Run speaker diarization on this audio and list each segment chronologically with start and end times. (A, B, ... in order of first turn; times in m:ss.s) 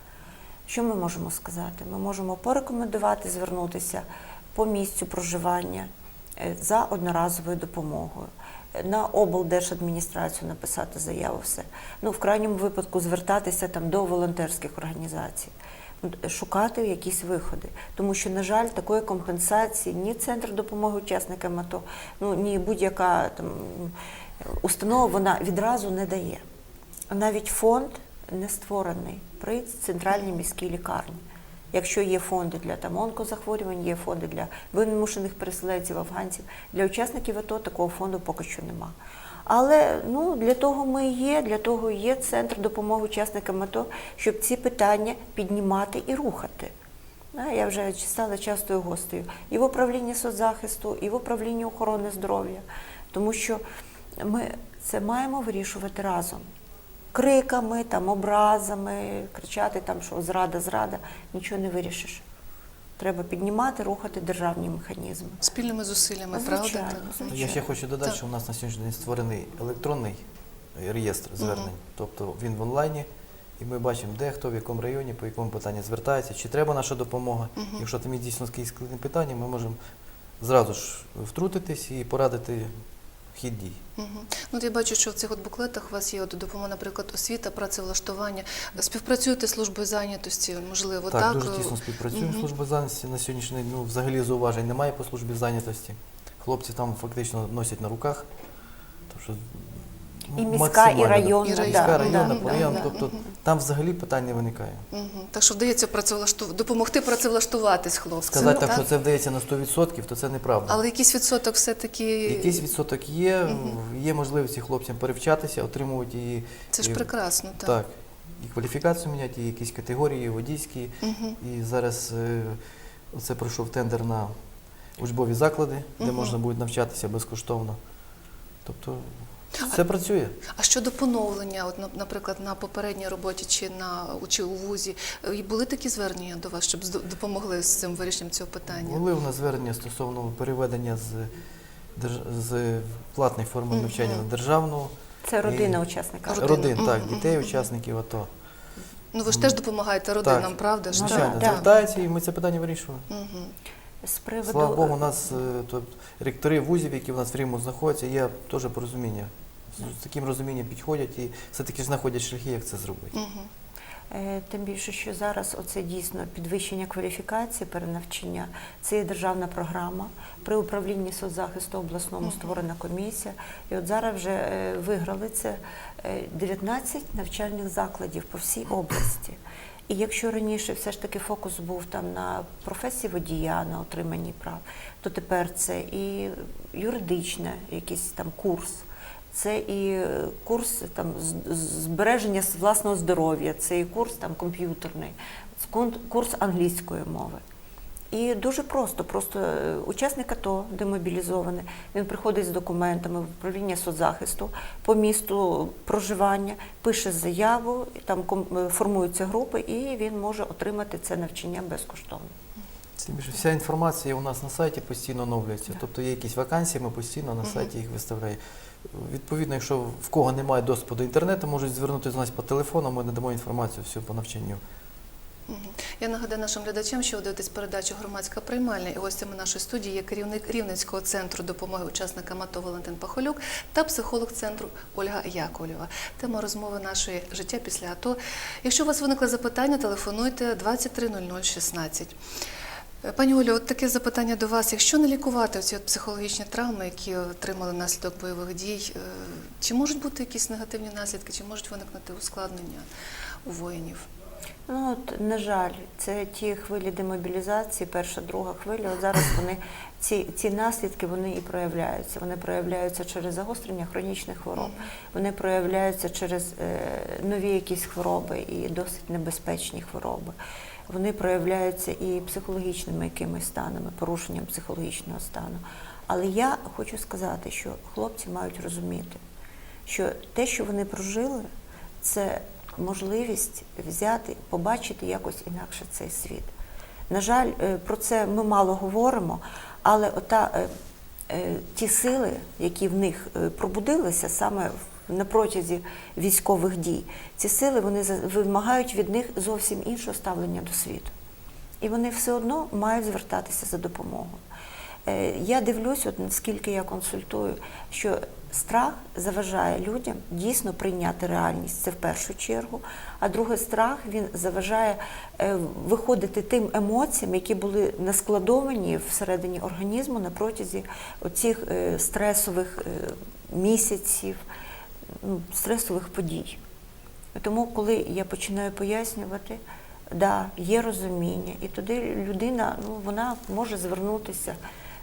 0:00.7-0:26.4 A
0:27.1-0:31.2 A
0:31.7-0:46.7 A
0:47.3-0:53.6 A
0:54.2-0:56.4 A
0:57.1-1:02.2 A
1:03.0-1:05.4 A
1:05.4-1:08.2 B
1:06.3-1:07.6 A
1:07.3-1:10.2 C
1:10.7-1:13.1 C
1:11.4-1:11.7 B
1:13.6-1:19.8 C
1:17.6-1:17.8 B
1:20.4-1:22.7 C
1:23.3-1:23.8 C
1:24.0-1:32.5 B
1:31.1-1:38.2 C
1:39.1-1:44.8 C
1:40.3-1:42.9 A
1:41.4-1:43.2 B
1:44.9-1:48.8 B
1:48.3-1:50.8 C
1:48.4-1:48.7 A
1:50.7-1:52.6 B
1:52.3-1:57.1 C
1:53.5-1:53.8 B
1:56.7-1:57.8 B
1:57.6-2:02.6 C
2:01.0-2:01.4 B
2:03.1-2:04.3 C
2:05.0-2:07.8 C
2:06.0-2:06.3 B
2:08.6-2:10.4 C
2:10.5-2:19.0 B
2:18.7-2:21.3 C
2:21.9-2:25.8 C
2:23.7-2:24.2 B
2:25.2-2:26.6 A
2:26.3-2:27.7 B
2:26.3-2:28.3 C
2:29.1-2:31.7 B
2:29.3-2:29.6 C
2:30.2-2:33.1 C
2:30.9-2:31.7 A
2:33.1-2:33.5 B
2:34.0-2:35.0 A
2:34.5-2:43.1 C
2:43.1-2:43.5 B
2:44.1-3:17.4 A
2:52.2-2:52.5 B
3:18.1-3:32.3 A
3:33.0-3:44.6 C
3:37.4-3:37.7 B
3:45.5-4:02.2 B
4:03.0-4:12.8 B
4:13.4-4:14.1 B
4:14.7-4:30.4 A
4:24.6-4:24.9 B
4:30.9-4:39.2 A
4:39.8-4:41.5 A
4:42.0-4:46.5 A
4:47.1-4:50.7 A
4:51.3-5:01.1 A
5:01.8-5:04.4 A
5:05.0-5:24.4 A
5:25.1-5:26.6 A
5:27.3-5:34.6 A